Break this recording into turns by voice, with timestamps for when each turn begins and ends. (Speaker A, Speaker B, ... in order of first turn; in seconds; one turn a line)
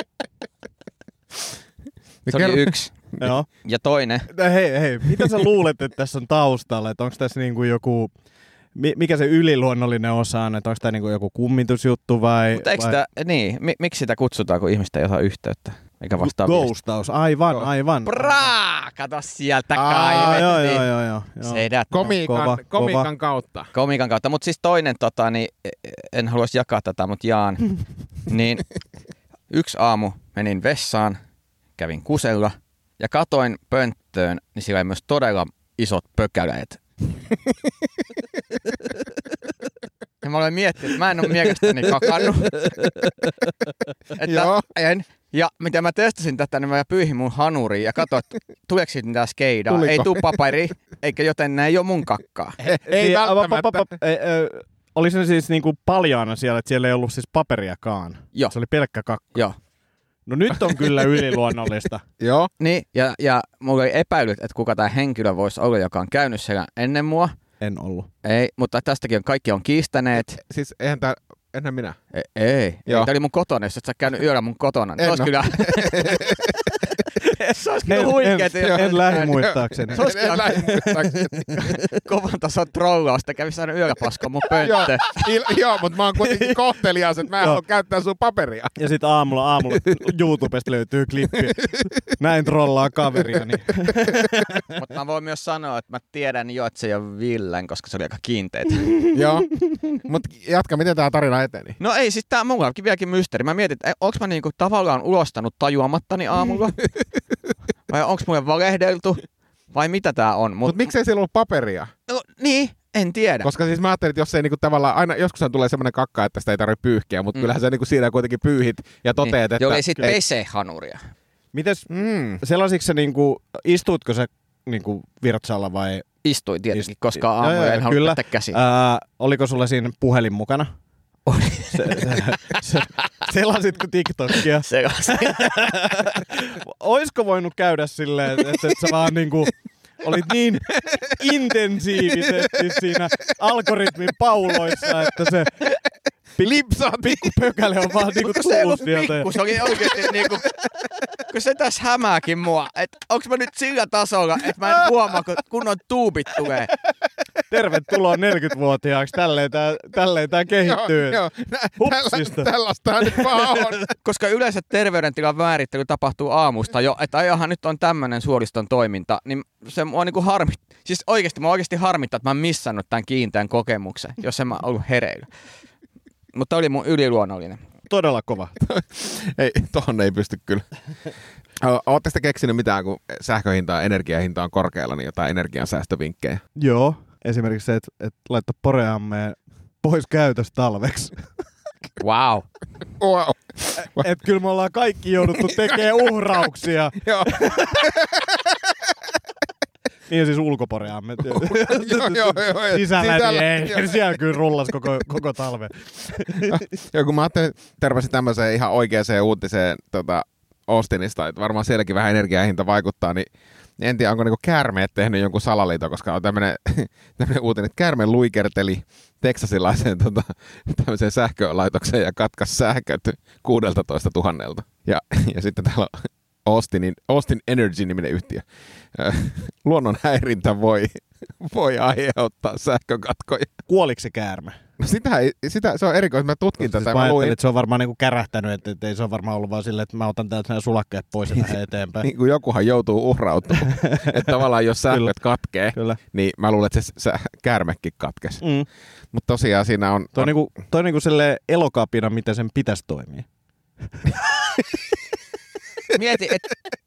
Speaker A: 2.2-3.3
Speaker B: 2.3-3.0
Speaker C: 3.2-3.5
Speaker B: 3.6-4.3
Speaker C: 4.3-8.1
Speaker C: 8.8-13.0
Speaker B: 12.5-16.7
Speaker C: 16.2-18.3
Speaker B: 18.1-20.9
Speaker A: 19.8-20.5
Speaker C: 20.2-23.1
Speaker B: 21.4-22.1
Speaker A: 21.9-23.7
Speaker B: 23.7-28.7
Speaker B: 29.5-31.2
Speaker B: 31.8-36.8
Speaker B: 40.2-42.7
Speaker C: 42.5-43.1
Speaker B: 44.1-52.6
Speaker A: 44.2-44.7
Speaker A: 49.7-50.4
Speaker A: 52.6-53.9
Speaker C: 52.7-59.4
Speaker C: 60.3-62.0
Speaker A: 62.2-62.5
Speaker B: 62.6-67.3
Speaker C: 67.6-68.1
Speaker B: 68.2-70.4
Speaker A: 70.4-72.0
Speaker B: 72.1-80.7
Speaker A: 75.0-76.6
Speaker C: 77.9-81.8
Speaker A: 78.6-81.6
Speaker B: 81.5-85.2
Speaker A: 84.6-88.8
Speaker C: 88.8-94.6
Speaker B: 94.7-99.1
Speaker A: 99.1-101.8
Speaker B: 101.8-106.8
Speaker B: 107.9-110.9
Speaker A: 110.7-111.9
Speaker B: 112.1-113.5
Speaker A: 113.4-120.2
Speaker B: 119.2-121.0
Speaker C: 121.5-126.1
Speaker A: 121.9-122.4
Speaker B: 126.2-128.6
Speaker C: 126.7-130.7
Speaker B: 131.3-132.2
Speaker C: 131.7-145.7
Speaker B: 134.3-136.1
Speaker A: 140.7-141.2
Speaker A: 142.1-142.7
Speaker A: 144.7-145.1
Speaker A: 146.4-147.4
Speaker C: 147.0-149.4
Speaker B: 148.1-150.5
Speaker B: 151.3-156.7
Speaker C: 157.5-161.2
Speaker A: 160.6-163.8
Speaker C: 161.8-162.5
Speaker C: 163.0-163.7
Speaker B: 164.0-175.3
Speaker B: 176.3-177.6
Speaker C: 177.9-178.6
Speaker A: 178.6-180.7
Speaker A: 181.6-186.4
Speaker C: 186.6-191.2
Speaker B: 192.0-192.5
Speaker A: 193.0-194.1
Speaker C: 193.8-197.9
Speaker A: 197.0-198.6
Speaker C: 200.1-206.6
Speaker A: 201.3-204.1
Speaker A: 206.4-213.3
Speaker A: 213.8-233.5
Speaker C: 233.7-234.6
Speaker A: 234.8-237.3
Speaker C: 236.6-242.1
Speaker A: 242.0-248.4
Speaker C: 243.6-244.3
Speaker C: 245.7-246.0
Speaker C: 248.4-248.7
Speaker A: 249.1-250.3
Speaker C: 250.1-253.3
Speaker C: 253.9-254.5
Speaker B: 255.9-256.6